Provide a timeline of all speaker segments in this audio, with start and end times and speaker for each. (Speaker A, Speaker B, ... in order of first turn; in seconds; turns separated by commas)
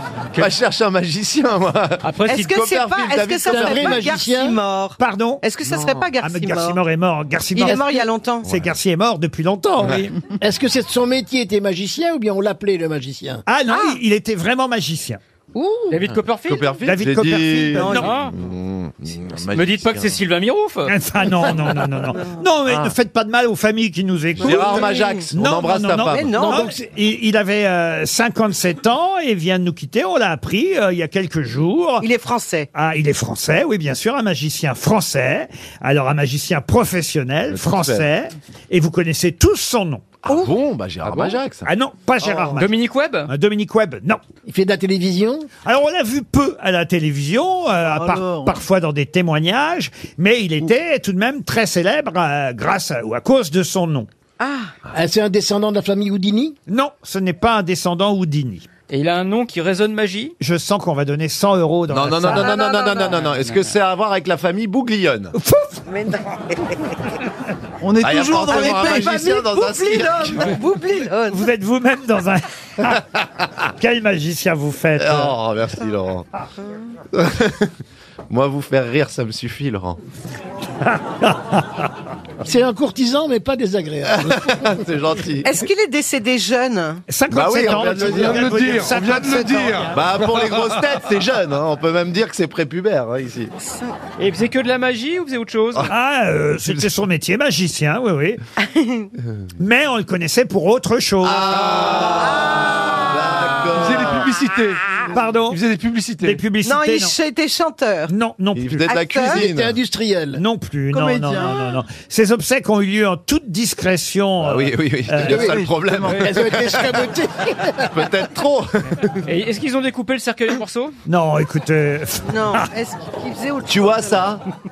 Speaker A: 0.4-4.1, Speaker B: 2.0-2.6, Speaker C: 2.3-6.8, Speaker D: 3.5-4.6, Speaker E: 5.0-5.4, Speaker A: 5.7-6.0, Speaker E: 6.2-10.1, Speaker C: 7.5-8.4, Speaker D: 10.4-13.4, Speaker E: 13.5-15.2, Speaker C: 13.7-14.0, Speaker C: 15.6-15.9, Speaker B: 15.9-16.8, Speaker A: 16.1-20.2, Speaker E: 16.8-18.1, Speaker C: 17.7-18.1, Speaker B: 17.9-18.3, Speaker B: 19.4-20.9, Speaker E: 20.9-32.1, Speaker C: 22.1-22.4, Speaker A: 24.4-26.7, Speaker C: 24.4-25.2, Speaker C: 26.1-26.7, Speaker C: 32.0-32.7, Speaker E: 32.7-40.2, Speaker A: 37.5-38.1, Speaker A: 40.2-41.7, Speaker E: 41.6-42.8, Speaker B: 42.5-43.3, Speaker E: 43.3-44.2, Speaker D: 44.4-45.5, Speaker E: 45.6-54.1, Speaker F: 47.8-48.5, Speaker C: 54.4-54.7, Speaker D: 54.9-56.5, Speaker E: 56.7-58.7, Speaker B: 58.9-60.4, Speaker E: 60.4-62.5, Speaker A: 61.9-65.3, Speaker C: 62.3-63.1, Speaker B: 63.1-63.7, Speaker E: 65.3-65.8, Speaker C: 65.9-66.2, Speaker F: 67.8-69.2, Speaker A: 68.0-70.6, Speaker C: 68.5-71.5, Speaker E: 71.3-73.0, Speaker E: 73.8-75.3, Speaker A: 75.0-76.3, Speaker A: 77.1-77.7, Speaker A: 78.3-80.0, Speaker E: 80.8-81.8, Speaker D: 82.4-84.7, Speaker A: 84.1-85.5, Speaker C: 85.4-87.0, Speaker E: 87.1-90.0, Speaker A: 87.3-88.6, Speaker G: 88.0-90.8, Speaker A: 89.9-93.5, Speaker C: 93.6-93.9, Speaker B: 94.2-95.9, Speaker E: 95.9-98.4, Speaker C: 98.6-99.1, Speaker E: 99.6-101.9, Speaker A: 101.2-104.3, Speaker C: 102.0-103.5, Speaker G: 103.6-106.4, Speaker E: 105.1-105.6, Speaker E: 106.2-107.1, Speaker C: 106.6-108.1, Speaker E: 108.1-108.9, Speaker A: 108.5-109.8, Speaker C: 108.8-109.4, Speaker D: 109.3-110.4, Speaker E: 110.3-115.5, Speaker F: 110.9-111.7, Speaker A: 114.4-117.0, Speaker D: 115.2-115.6, Speaker F: 115.3-116.2, Speaker D: 116.2-118.1, Speaker A: 117.9-119.1, Speaker B: 119.2-120.9, Speaker E: 121.0-122.7, Speaker C: 122.2-124.2, Speaker A: 123.7-124.4